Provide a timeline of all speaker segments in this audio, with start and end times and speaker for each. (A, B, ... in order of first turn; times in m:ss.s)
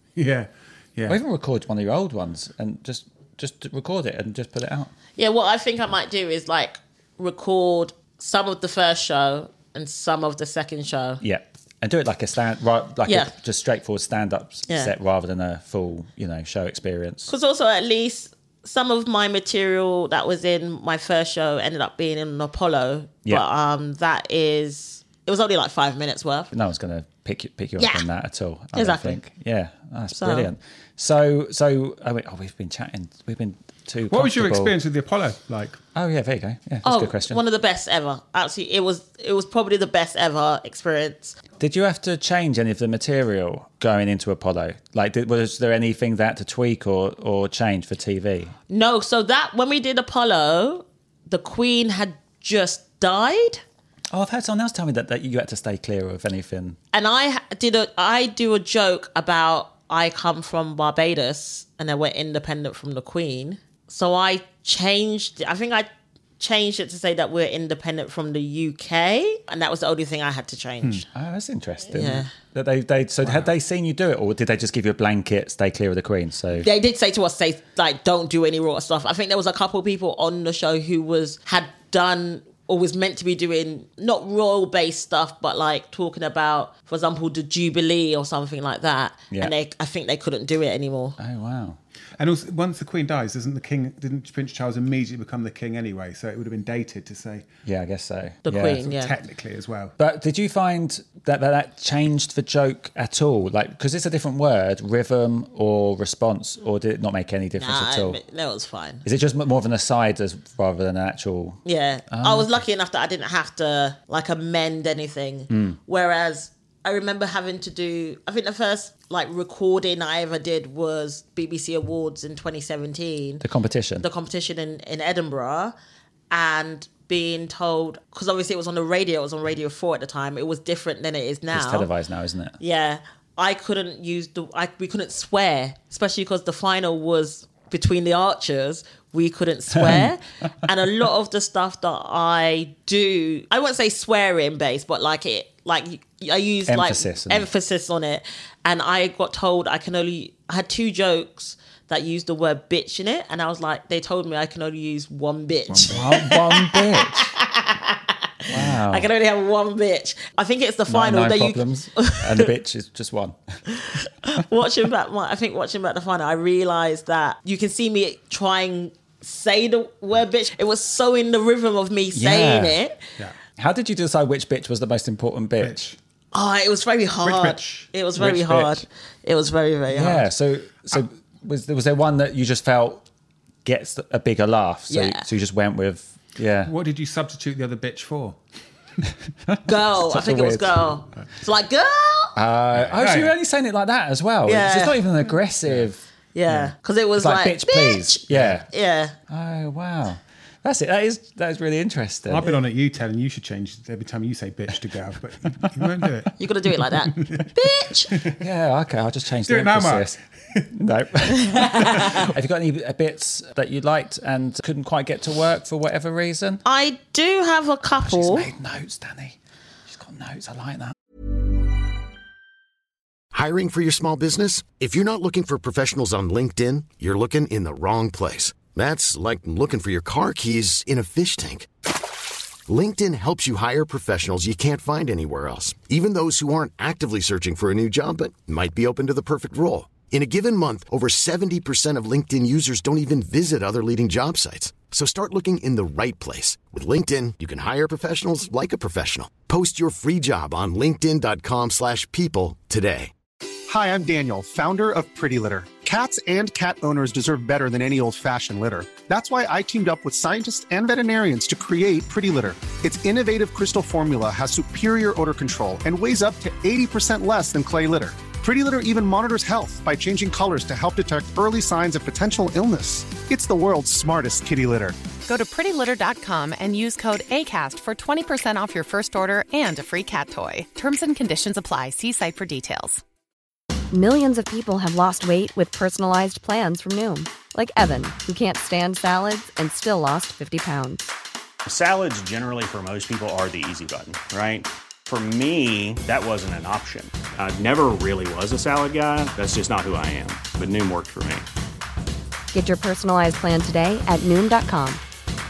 0:00.2-0:01.2 A
0:01.1-0:04.9 B
0:05.2-0:11.2 C
0:11.2-0:17.3 B
0:13.0-0:13.3 C
0:17.3-0:26.5 C
0:26.5-0:34.8 B
0:27.8-0:28.0 C
0:28.7-0:29.2 C
0:30.1-0:30.5 C
0:34.1-0:35.8 A
0:35.9-0:37.4 B
0:36.8-0:41.4 C
0:41.6-0:48.5 B
0:48.7-0:53.6 C
0:54.1-0:56.8 B
0:56.9-1:05.9 C
1:06.4-1:11.0 C
1:11.1-1:16.7 B
1:11.9-1:12.3 C
1:13.2-1:13.5 A
1:16.5-1:31.2 C
1:31.2-1:31.8 B
1:32.2-1:37.5 A
1:37.6-1:38.9 B
1:38.4-1:39.1 C
1:38.8-1:39.9 A
1:40.0-1:48.2 B
1:47.6-1:49.0 C
1:49.0-1:51.6 B
1:51.6-2:03.4 C
1:52.1-1:52.5 B
1:55.5-1:55.8 B
2:03.4-2:04.0 B
2:04.0-2:05.7 C
2:06.3-2:11.9 C
2:11.5-2:12.6 B
2:12.6-2:42.5 C
2:19.7-2:20.1 B
2:26.7-2:27.5 B
2:35.7-2:37.3 B
2:38.5-2:39.1 B
2:40.9-2:43.4 B
2:43.7-2:53.0 C
2:52.1-2:52.8 B
2:53.6-2:55.9 B
2:55.6-2:56.0 A
2:56.3-3:00.2 C
2:57.2-2:57.9 A
2:58.2-2:58.8 B
2:59.9-3:03.0 B
3:03.6-3:06.7 B
3:04.9-3:05.2 C
3:06.6-3:08.4 A
3:09.6-3:10.8 B
3:09.6-3:12.3 C
3:12.3-3:16.0 B
3:12.7-3:13.3 A
3:14.4-3:15.0 C
3:16.3-3:19.1 C
3:17.2-3:18.7 B
3:18.3-3:18.6 A
3:19.3-3:22.5 B
3:22.3-3:26.3 A
3:26.4-3:28.1 C
3:27.0-3:27.5 A
3:28.1-3:28.4 A
3:28.2-3:30.2 B
3:29.4-3:30.7 A
3:30.7-3:36.6 B
3:31.4-3:32.2 C
3:36.6-3:38.5 C
3:38.0-3:40.9 B
3:43.3-3:51.7 D
3:52.7-4:13.1 D
4:13.7-4:35.0 E
4:35.2-4:43.0 F
4:43.9-4:51.1 G
4:51.6-5:01.4 H
5:02.5-5:05.0 G